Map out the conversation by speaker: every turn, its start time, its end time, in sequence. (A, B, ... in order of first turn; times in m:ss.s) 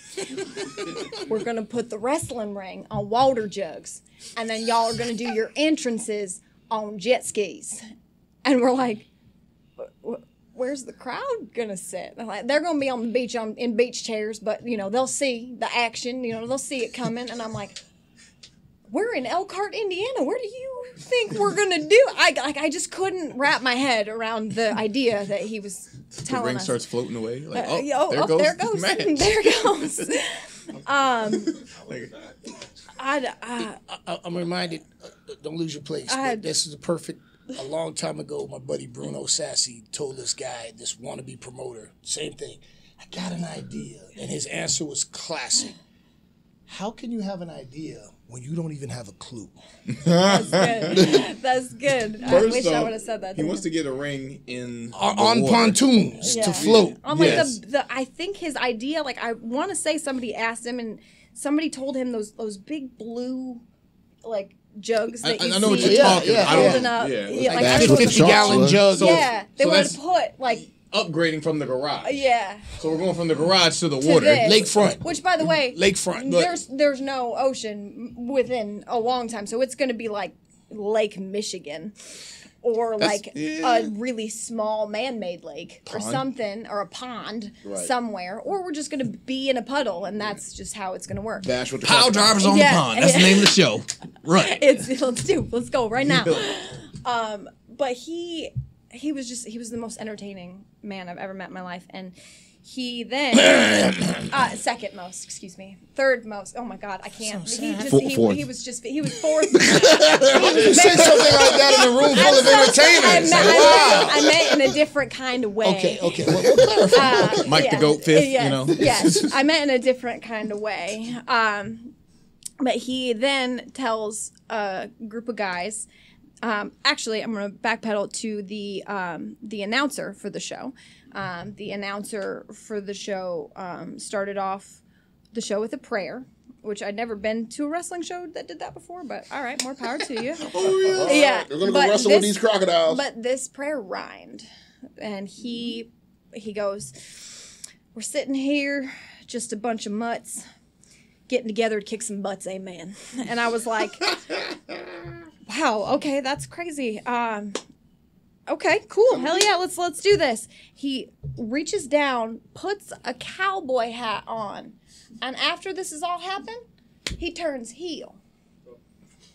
0:00.4-0:07.8 A
0:08.4-0:09.1 A
0:09.8-0:17.8 A
0:18.9-0:26.8 A
0:26.2-0:29.4 B
0:27.5-0:31.6 A
0:31.5-0:32.3 B
0:33.0-0:33.8 A
0:33.9-0:45.8 C
0:36.1-0:36.4 A
0:46.7-0:49.5 C
0:49.9-0:51.2 B
0:50.2-0:53.6 A
0:52.2-0:55.8 B
0:54.9-0:57.5 C
0:56.2-0:57.0 D
0:56.2-1:03.6 A
0:56.6-0:57.5 B
1:04.2-1:10.6 A
1:05.2-1:07.6 B
1:05.8-1:06.9 C
1:07.5-1:09.3 C
1:07.5-1:08.8 D
1:09.0-1:12.2 B
1:12.0-1:12.7 A
1:12.8-1:14.8 B
1:14.0-1:21.9 A
1:14.4-1:15.0 C
1:15.6-1:16.3 C
1:16.3-1:16.5 B
1:22.6-1:31.5 A
1:23.0-1:23.9 B
1:25.9-1:26.2 B
1:27.6-1:27.9 D
1:31.4-1:32.6 D
1:31.8-1:34.7 B
1:32.4-1:33.6 A
1:34.3-1:56.1 A
1:36.0-1:36.5 B
1:43.6-1:44.2 C
1:47.2-1:47.8 C
1:47.8-1:48.4 D
1:49.6-1:51.5 D
1:50.3-1:54.4 C
1:52.1-1:53.8 B
1:55.6-1:57.4 C
1:56.9-2:01.9 A
1:57.4-1:59.3 B
2:02.6-2:05.9 A
2:06.4-2:14.8 A
2:15.3-2:24.4 A
2:20.4-2:21.3 B
2:20.6-2:23.0 D
2:25.0-2:30.4 A
2:31.3-2:34.2 A
2:35.4-2:37.6 A
2:38.5-2:46.6 A
2:47.2-2:48.2 A